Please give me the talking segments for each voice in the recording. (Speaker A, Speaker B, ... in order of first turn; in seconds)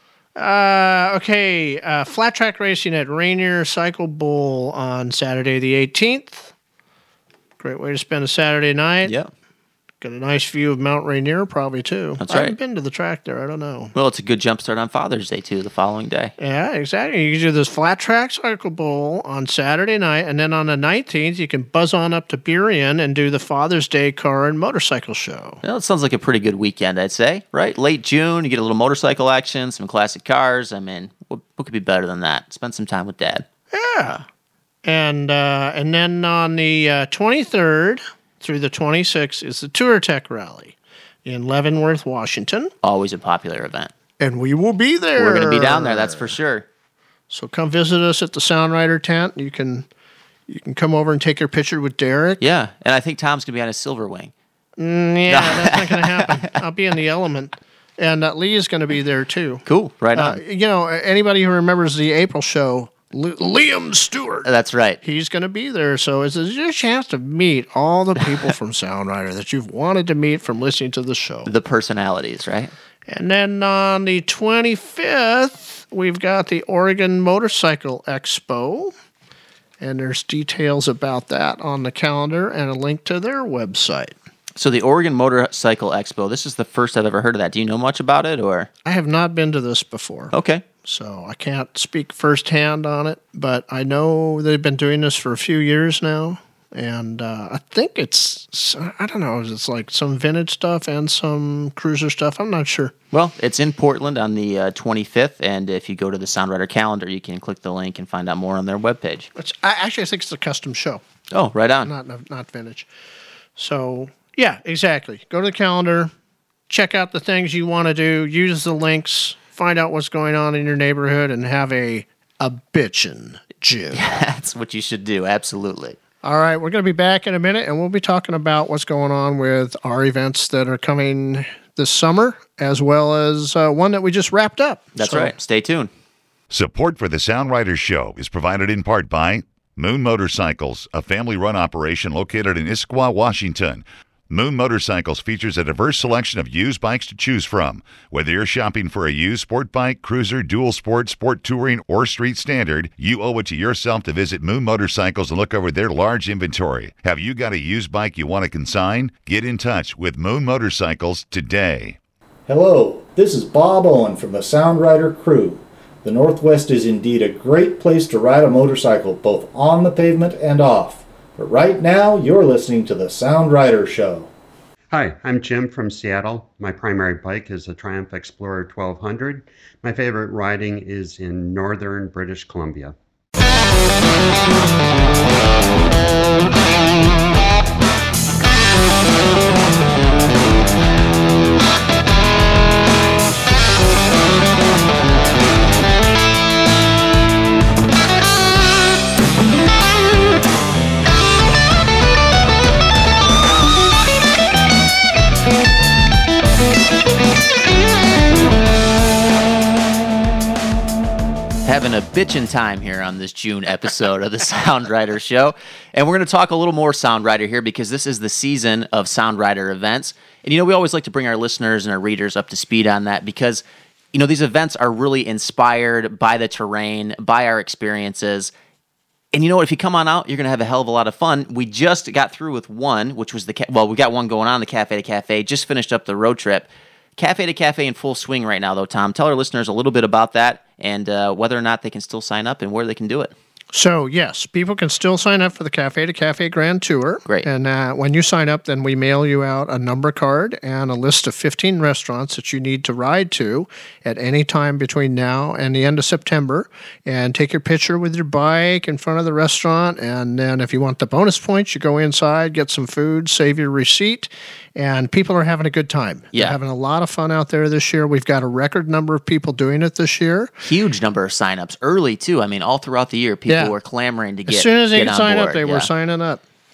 Speaker A: 0.3-6.5, 7.6-9.1, 10.0-13.9, 16.4-25.6, 33.7-34.2, 34.8-42.7, 44.2-46.4, 47.3-49.9, 50.5-52.4, 54.8-59.6, 60.1-64.5, 65.0-71.5, 73.1-78.9, 79.8-84.2, 88.8-90.3, 90.8-102.9, 109.3-111.0, 111.8-112.9, 113.5-116.1, 116.7-124.0, 126.2-135.3, 243.7-270.5, 273.5-273.7, 274.5-276.4
Speaker B: 9.0-9.3, 12.2-12.6, 13.9-16.3, 25.6-33.4, 42.8-43.9, 45.2-46.6, 52.4-54.3, 55.3-56.5, 59.6-60.4, 64.4-65.0, 71.4-72.7, 84.5-88.7, 90.3-90.6, 103.1-109.3, 111.3-111.9, 123.9-126.0, 134.9-135.9, 211.6-228.5, 229.3-243.3, 270.6-275.9
Speaker C: 136.5-162.0
Speaker D: 162.5-174.3
Speaker E: 174.9-182.9